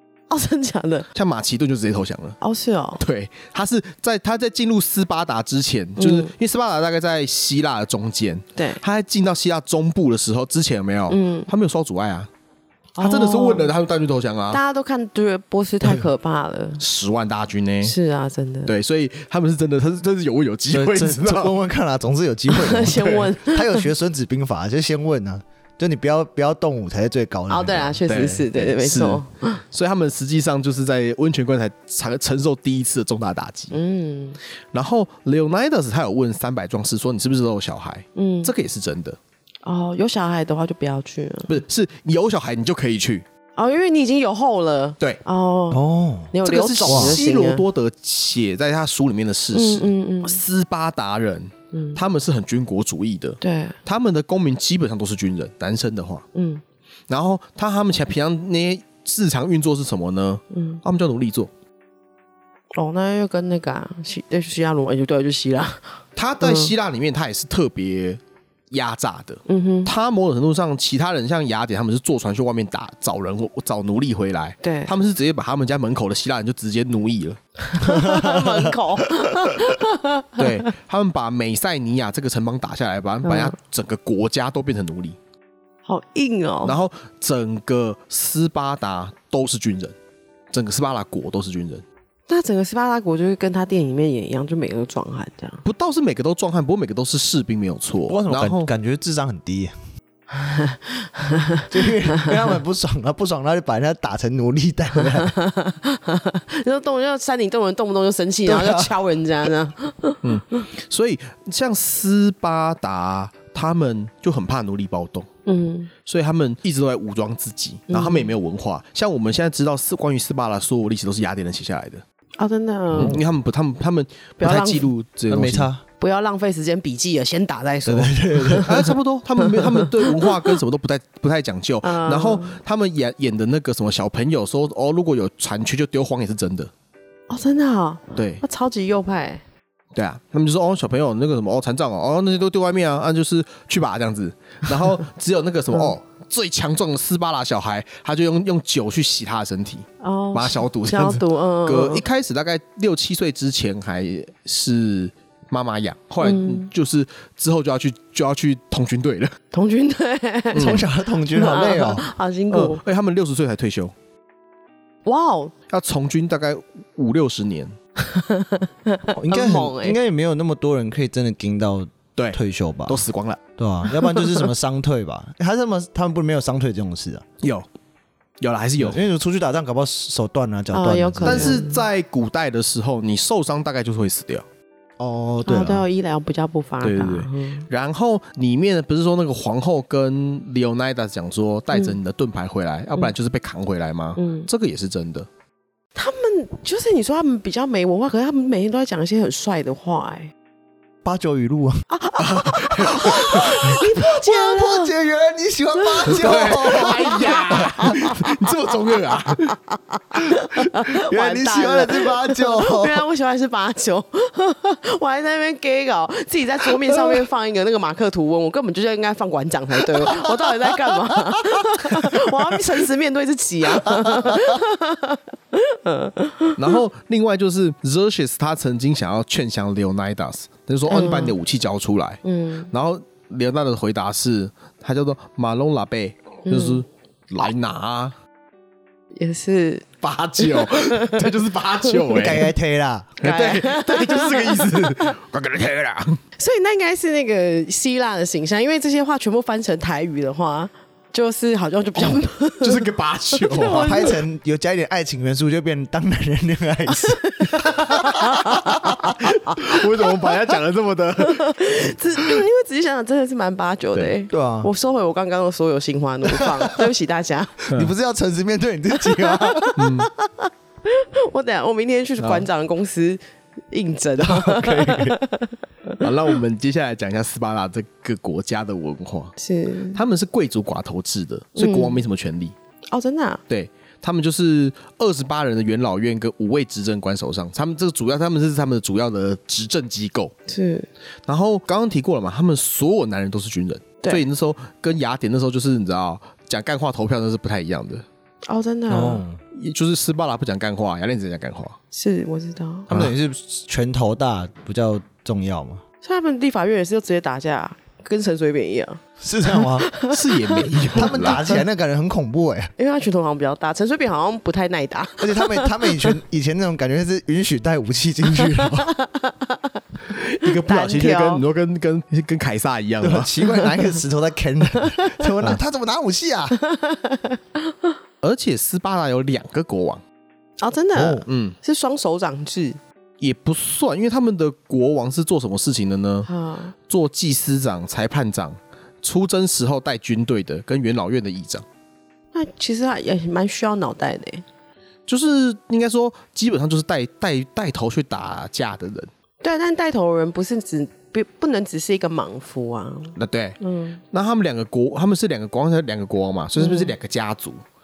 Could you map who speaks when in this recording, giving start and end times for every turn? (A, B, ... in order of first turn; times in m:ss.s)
0:00.3-0:01.1 A
0:01.1-0:02.4 B
0:02.4-0:03.0 A
0:03.0-0:12.3 B
0:06.0-0:06.3 A
0:08.6-0:08.8 A
0:11.1-0:11.5 A
0:13.0-0:13.7 A
0:13.0-0:14.6 B
0:14.5-0:16.8 A
0:16.8-0:18.0 B
0:17.8-0:18.7 A
0:18.6-0:21.5 B
0:20.7-0:28.0 C
0:22.5-0:23.9 A
0:27.5-0:29.6 A
0:28.1-0:33.7 B
0:33.7-0:34.4 A
0:34.7-0:39.2 B
0:38.2-0:38.5 A
0:39.6-0:41.6 A
0:41.5-0:43.2 B
0:43.6-0:47.6 A
0:45.7-0:46.3 C
0:46.4-0:56.2 B
0:46.9-0:47.2 C
0:49.5-0:50.4 A
0:51.7-0:52.0 A
0:53.4-0:53.8 A
0:56.4-0:56.6 A
0:57.1-1:01.5 B
1:00.5-1:00.8 A
1:02.8-1:06.7 A
1:06.2-1:08.2 B
1:08.7-1:17.4 B
1:09.5-1:09.9 A
1:14.6-1:14.9 A
1:17.6-1:20.4 A
1:17.8-1:18.7 C
1:20.4-1:25.2 B
1:23.2-1:23.5 A
1:25.9-1:26.8 A
1:26.6-1:29.9 B
1:30.5-1:31.8 B
1:32.3-1:35.6 A
1:35.6-1:38.7 B
1:38.1-1:39.7 C
1:40.3-1:42.3 A
1:41.7-1:45.3 C
1:45.1-1:50.7 A
1:48.4-1:48.9 C
1:50.2-1:55.3 B
1:55.4-1:55.9 A
1:56.0-2:02.0 B
1:57.9-1:58.3 A
2:02.4-2:03.2 A
2:02.9-2:05.7 B
2:03.0-2:03.2 C
2:04.4-2:04.9 A
2:05.3-2:05.8 C
2:06.0-2:08.9 A
2:07.9-2:08.8 C
2:08.6-2:16.7 B
2:09.4-2:10.5 A
2:11.8-2:12.6 A
2:17.3-2:19.4 A
2:18.2-2:18.4 B
2:19.9-2:39.4 B
2:30.0-2:32.0 A
2:36.2-2:36.7 A
2:39.5-2:42.8 A
2:40.5-2:40.8 B
2:40.6-2:42.0 C
2:42.5-2:43.9 B
2:45.0-2:45.5 A
2:45.7-2:47.7 B
2:48.0-2:50.0 A
2:49.1-2:53.0 C
2:52.2-2:53.4 B
2:53.6-2:57.2 C
2:58.4-2:59.0 B
2:58.8-3:01.6 C
3:00.7-3:01.8 A
3:01.2-3:04.4 B
3:05.0-3:05.8 C
3:05.4-3:07.6 A
3:06.8-3:15.3 B
3:11.7-3:12.0 A
3:14.2-3:14.5 A
3:15.9-3:20.3 A
3:21.0-3:21.8 C
3:21.9-3:24.9 A
3:22.2-3:23.5 B
3:23.0-3:28.0 C
3:25.8-3:28.2 A
3:26.1-3:29.6 B
3:29.4-3:46.8 A
3:30.9-3:33.0 C
3:46.6-3:58.1 B
3:50.9-3:51.4 A
3:52.2-3:52.7 A
3:56.4-3:56.8 A
3:59.2-3:59.9 A
4:00.0-4:02.5 B
4:00.4-4:01.3 A
4:01.8-4:02.1 A
4:02.1-4:03.1 C
4:03.2-4:06.2 B
4:03.2-4:05.1 A
4:06.4-4:14.2 A
4:12.6-4:13.9 B
4:13.8-4:17.2 C
4:16.9-4:20.4 A
4:19.1-4:21.6 B
4:21.2-4:27.6 A
4:24.3-4:24.7 C
4:27.7-4:29.7 C
4:29.0-4:36.0 A
4:29.8-4:30.1 B
4:32.2-4:32.5 B
4:34.2-4:35.2 C
4:36.0-4:39.3 B
4:39.4-4:40.0 A
4:39.9-4:42.5 B
4:41.6-4:42.0 A
4:42.9-4:43.4 A
4:43.5-4:50.3 B
4:50.5-4:50.9 A
4:51.3-4:58.0 B
4:58.5-4:59.2 A
4:58.9-4:59.4 C
4:59.5-5:01.8 B
5:01.9-5:02.9 A
5:02.9-5:05.8 C
5:06.0-5:11.4 A
5:09.2-5:09.9 C
5:10.1-5:11.6 B
5:10.9-5:12.7 C
5:12.8-5:16.2 A
5:15.2-5:18.9 C
5:18.3-5:21.4 A
5:20.1-5:23.3 B
5:23.0-5:26.6 C
5:23.4-5:24.0 A
5:24.7-5:25.2 A
5:26.6-5:27.9 A
5:28.2-5:30.0 B
5:30.6-5:32.8 A
5:31.0-5:31.2 C
5:31.2-5:31.6 B
5:33.2-5:36.3 B
5:36.3-5:36.7 A
5:36.9-5:41.6 B
5:42.3-5:44.4 A
5:45.1-5:49.1 B
5:49.4-5:54.0 A
5:53.2-5:53.6 B
5:54.1-5:57.6 B
5:56.6-5:56.9 A